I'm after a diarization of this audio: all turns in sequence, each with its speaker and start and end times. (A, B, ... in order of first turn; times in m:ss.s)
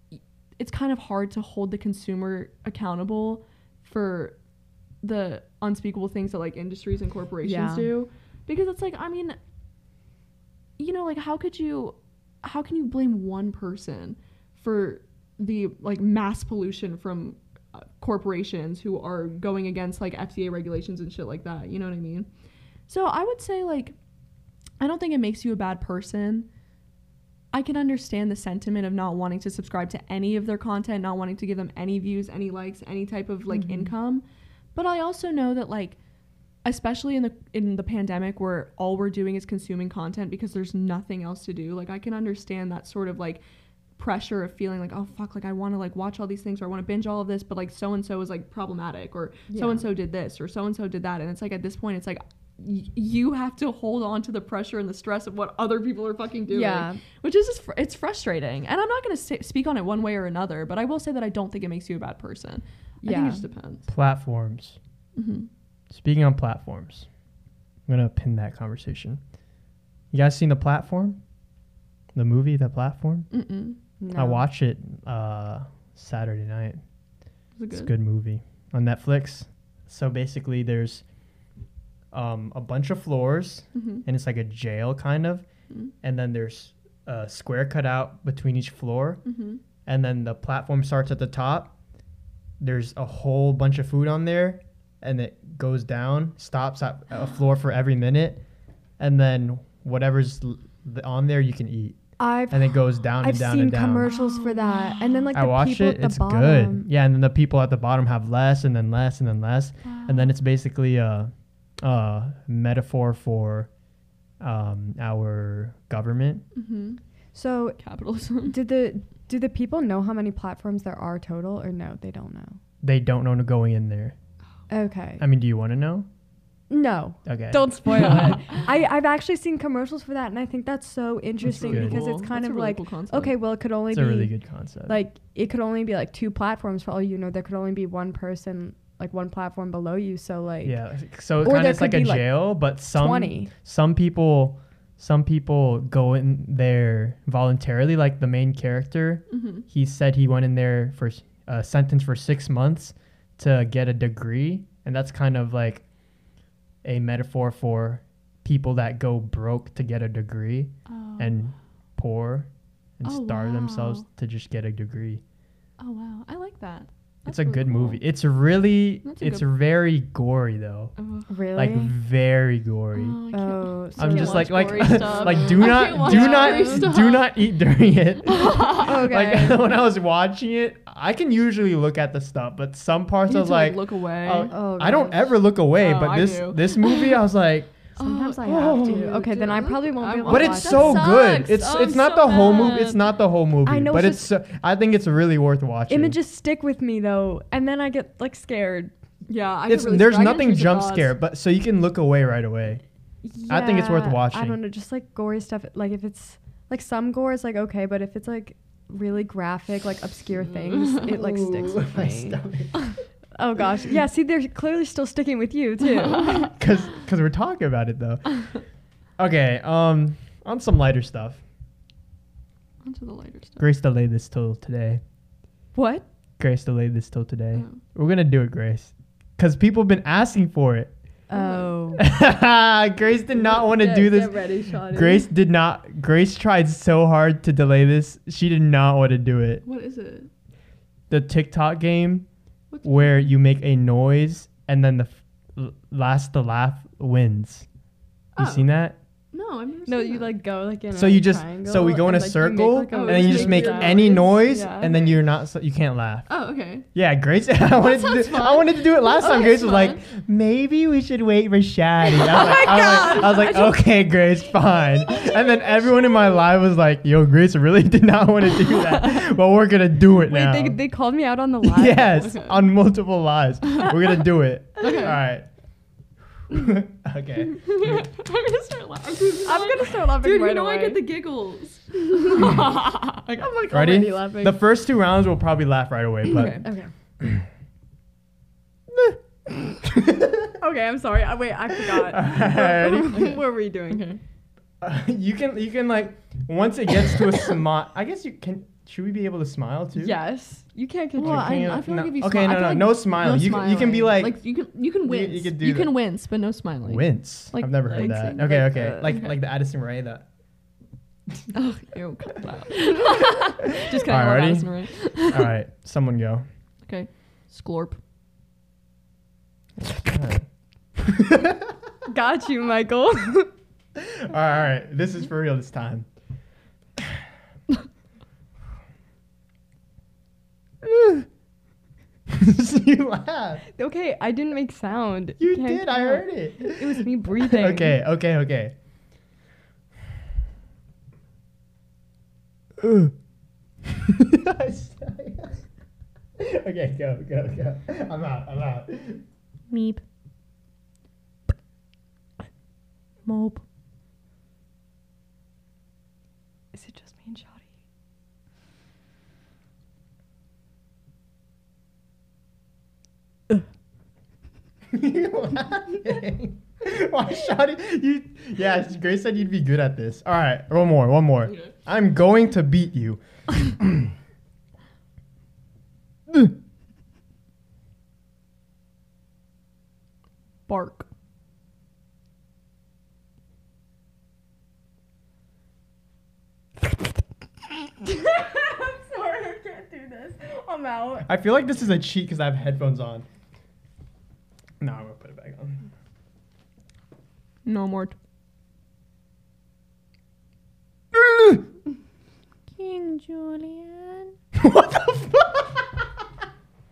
0:00.6-0:04.4 A
0:05.0-0:09.4 A
0:07.4-0:07.9 B
0:10.8-0:22.2 A
0:22.9-0:23.9 A
0:24.8-0:26.5 A
0:27.5-0:34.2 A
0:33.5-0:33.9 B
0:34.7-0:36.0 A
0:36.6-0:43.4 A
0:44.0-1:03.9 A
0:49.5-0:49.9 B
0:56.5-0:57.0 B
1:03.0-1:03.4 B
1:03.9-1:04.8 C
1:05.2-1:05.5 A
1:05.9-1:07.1 C
1:07.9-1:09.2 C
1:10.1-1:11.2 C
1:12.1-1:13.3 C
1:13.3-1:13.8 A
1:14.0-1:14.4 B
1:14.1-1:16.8 C
1:17.6-1:17.9 A
1:17.7-1:21.0 C
1:22.1-1:25.4 C
1:23.7-1:24.0 A
1:26.0-1:29.2 C
1:29.2-1:29.6 A
1:29.8-1:31.7 C
1:32.6-1:38.4 C
1:39.0-1:44.1 C
1:42.2-1:46.9 B
1:44.0-1:45.3 A
1:45.3-1:53.7 C
1:49.8-1:50.4 A
1:54.4-1:56.4 C
1:56.5-1:57.0 A
1:57.3-1:57.8 B
1:57.8-1:58.6 A
1:58.4-2:02.6 B
2:02.8-2:04.2 C
2:04.7-2:05.2 B
2:05.2-2:06.1 C
2:06.7-2:20.8 B
2:07.2-2:08.1 C
2:11.5-2:12.0 C
2:11.5-2:13.3 A
2:13.9-2:15.0 C
2:20.6-2:35.9 C
2:21.4-2:23.5 B
2:29.3-2:29.6 A
2:36.8-2:45.2 C
2:40.9-2:41.4 A
2:43.0-2:44.0 A
2:45.8-2:48.0 A
2:47.3-2:50.9 C
2:49.0-2:49.5 A
2:51.0-2:51.3 A
2:51.3-2:51.9 B
2:51.5-2:53.2 C
2:52.9-2:57.3 A
2:53.3-2:57.0 B
2:54.0-3:07.9 C
2:58.2-2:59.0 A
2:58.7-2:59.6 B
3:03.3-3:04.6 A
3:04.5-3:05.4 B
3:05.8-3:07.2 A
3:08.0-3:13.1 A
3:08.0-3:11.3 B
3:08.4-3:09.1 C
3:10.2-3:16.2 C
3:12.3-3:12.8 B
3:13.6-3:14.3 B
3:15.9-3:18.9 B
3:19.3-3:21.1 A
3:19.7-3:22.8 C
3:23.2-3:32.4 B
3:23.4-3:24.6 C
3:30.6-3:31.1 A
3:31.0-3:33.0 C
3:33.3-3:36.6 B
3:35.8-3:36.5 A
3:36.6-3:38.6 C
3:39.2-3:41.4 C
3:42.8-3:43.6 A
3:43.6-3:45.0 C
3:45.7-3:46.0 B
3:46.4-3:51.0 C
3:51.3-3:52.0 B
3:51.3-3:51.8 A
3:52.0-3:59.6 C
3:53.4-3:55.2 A
3:53.6-3:55.3 B
3:59.6-4:00.3 A
4:01.1-4:02.3 C
4:02.7-4:03.3 A
4:02.8-4:07.7 C
4:08.4-4:08.7 A
4:08.4-4:09.0 C
4:09.3-4:10.4 A
4:09.8-4:15.0 B
4:10.9-4:16.3 C
4:12.9-4:15.2 A
4:16.3-4:16.9 A
4:16.9-4:30.8 C
4:17.7-4:20.0 A
4:22.1-4:23.8 A
4:22.5-4:23.7 B
4:28.6-4:29.2 B
4:30.3-4:32.4 B
4:31.6-4:35.5 C
4:32.2-4:32.6 A
4:34.8-4:35.2 A
4:36.5-4:38.1 C
4:37.5-4:43.6 A
4:39.4-4:41.0 B
4:42.3-4:42.6 B
4:43.4-4:44.6 B
4:43.7-4:46.7 C
4:46.3-4:46.7 A
4:46.3-4:46.9 B
4:47.2-4:47.5 C
4:48.9-4:49.2 C
4:49.9-4:50.5 C
4:50.6-4:54.1 B
4:52.0-4:53.3 C
4:53.1-4:54.2 A
4:54.8-5:00.1 C
5:00.0-5:01.8 B
5:01.2-5:09.4 A
5:01.2-5:04.3 C
5:05.0-5:05.9 C
5:06.8-5:10.3 C
5:07.5-5:08.9 B
5:11.5-5:15.5 A
5:13.8-5:16.4 C
5:16.8-5:18.0 A
5:20.1-5:21.7 C
5:22.1-5:23.5 B
5:24.0-5:26.1 C
5:30.8-5:31.3 C
5:32.3-5:33.6 C
5:33.7-5:38.0 B
5:35.4-5:38.7 C
5:42.8-5:43.1 C
5:44.0-5:45.7 C
5:46.4-5:49.2 C
5:49.7-5:50.0 A
5:53.2-5:53.6 A
5:56.7-5:57.6 B
6:04.9-6:14.1 C
6:20.7-6:21.1 A
6:27.9-6:31.3 B
6:31.2-6:33.2 C
6:34.8-6:35.9 C
6:37.6-6:38.1 A
6:41.1-6:41.6 C
6:42.8-6:43.7 A
6:44.5-6:46.2 C